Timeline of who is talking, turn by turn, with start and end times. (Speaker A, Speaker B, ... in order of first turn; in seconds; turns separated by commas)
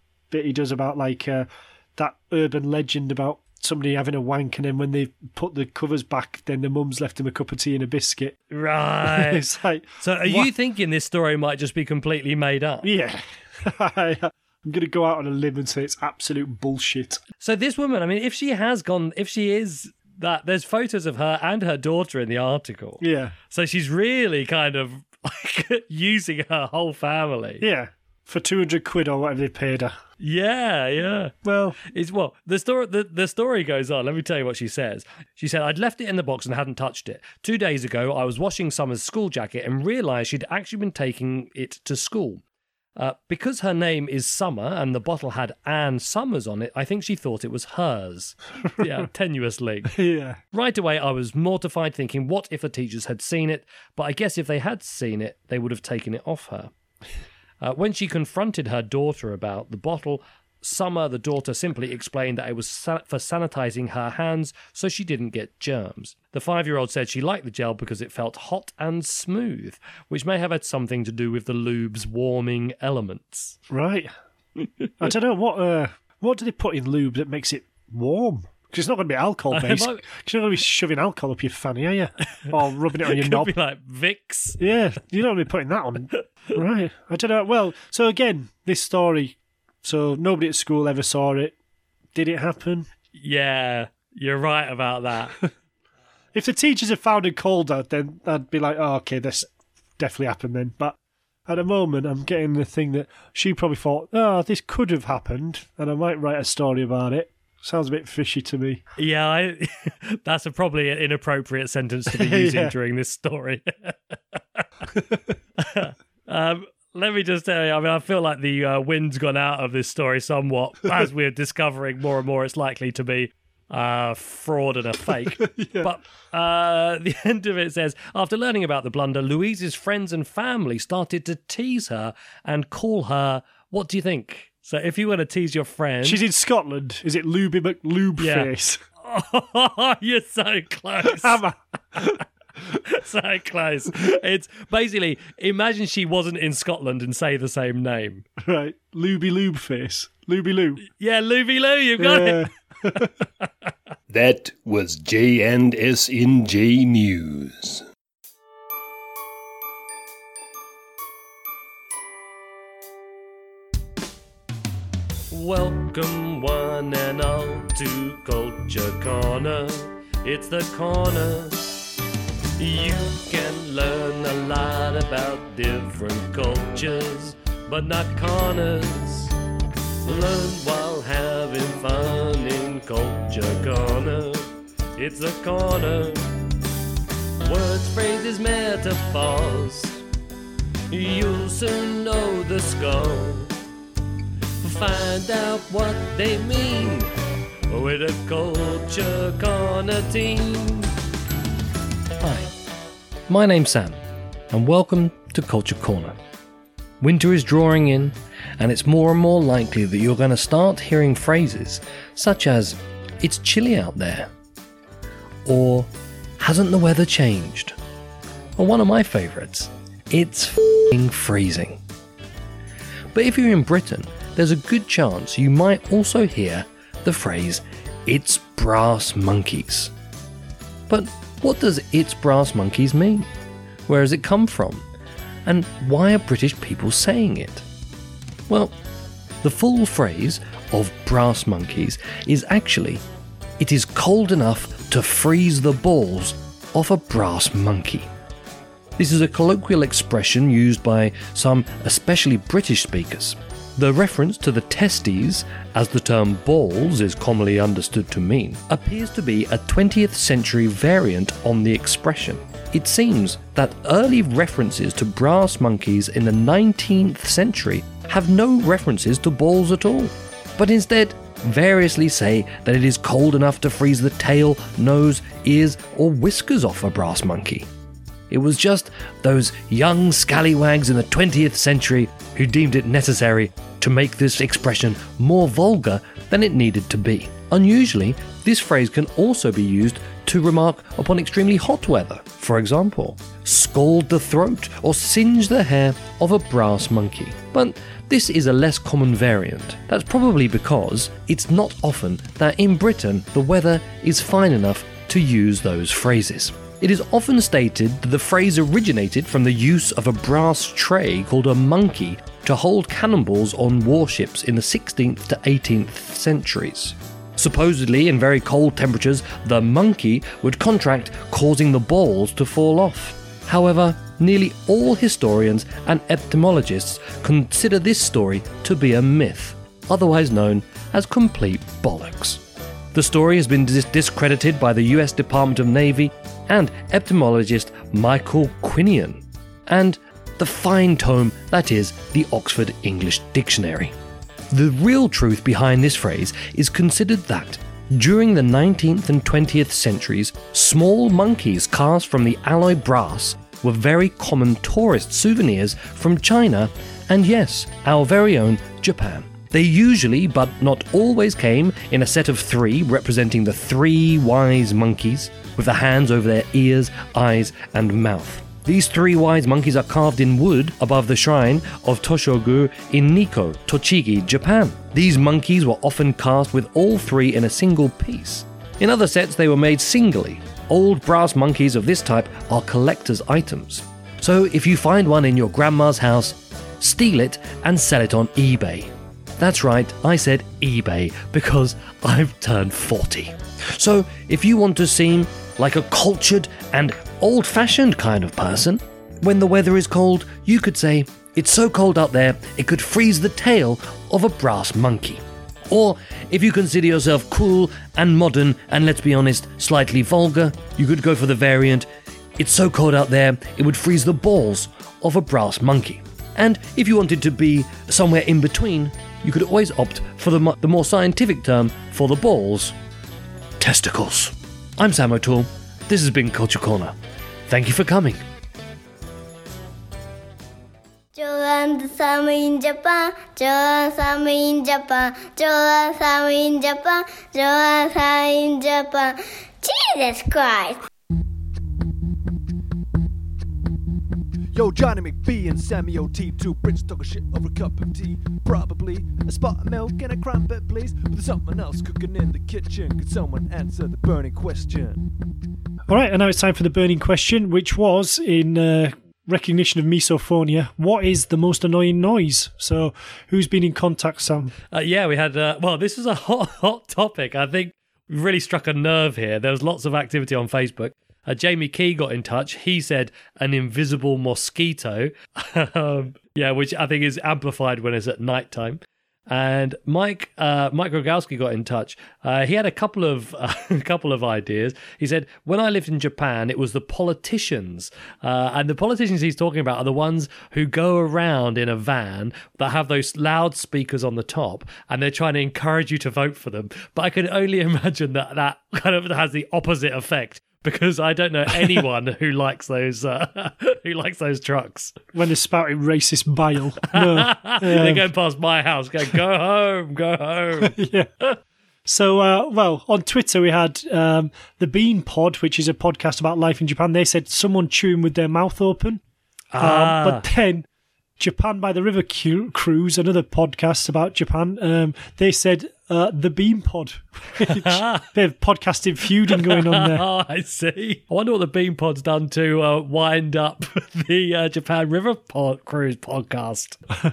Speaker A: 0.3-8.4, Speaker B: 8.5-9.4, Speaker A: 9.0-10.5, Speaker B: 10.0-12.9, Speaker A: 12.8-17.2, Speaker B: 17.4-27.6, Speaker A: 23.0-23.3, Speaker A: 27.6-29.9, Speaker B: 30.2-31.3, Speaker A: 31.4-31.8, Speaker B: 31.8-42.4, Speaker B: 43.0-49.9, Speaker A: 48.6-49.1, Speaker A: 49.9-50.4, Speaker B: 50.5-56.7, Speaker B: 57.6-73.6, Speaker A: 73.7-74.1, Speaker B: 74.6-74.9, Speaker A: 75.0-83.5, Speaker B: 79.5-80.0, Speaker B: 82.4-84.6, Speaker A: 84.6-91.5, Speaker A: 92.1-92.9, Speaker B: 93.1-95.4, Speaker A: 96.3-108.8, Speaker B: 109.0-114.6, Speaker A: 112.1-112.7, Speaker A: 114.9-115.2, Speaker B: 115.6-136.2, Speaker A: 125.1-125.9, Speaker A: 136.0-138.8, Speaker B: 138.2-138.5, Speaker B: 139.0-141.4, Speaker A: 141.0-142.2, Speaker B: 142.7-148.2, Speaker A: 148.4-150.8, Speaker B: 150.9-152.5, Speaker A: 152.0-153.2, Speaker C: 154.1-157.8, Speaker B: 165.3-171.9, Speaker B: 172.6-179.3, Speaker B: 180.0-186.3, Speaker B: 187.4-190.0, Speaker B: 190.9-193.5, Speaker B: 194.6-197.1, Speaker B: 197.7-200.9, Speaker B: 202.2-202.5, Speaker B: 203.3-204.0, Speaker B: 204.5-206.2, Speaker B: 207.0-214.3, Speaker B: 215.4-217.8, Speaker B: 218.6-221.8, Speaker B: 223.1-229.9, Speaker B: 230.9-233.3, Speaker B: 233.9-234.8, Speaker B: 235.4-237.6, Speaker B: 238.5-238.7, Speaker B: 239.4-243.0, Speaker B: 243.6-248.1, Speaker B: 249.0-277.7, Speaker B: 278.3-332.4, Speaker B: 332.9-343.9, Speaker B: 344.5-411.9, Speaker B: 412.4-422.8, Speaker B: 423.6-426.9, Speaker B: 427.5-428.2, Speaker D: 431.1-440.8, Speaker E: 444.5-455.1, Speaker A: 455.9-464.5, Speaker B: 464.7-504.9, Speaker A: 505.1-508.1, Speaker B: 506.9-510.7, Speaker A: 510.6-511.1, Speaker A: 511.9-519.0, Speaker B: 519.5-520.2, Speaker A: 519.6-520.7, Speaker A: 521.2-530.0, Speaker B: 527.5-528.1, Speaker B: 529.3-536.8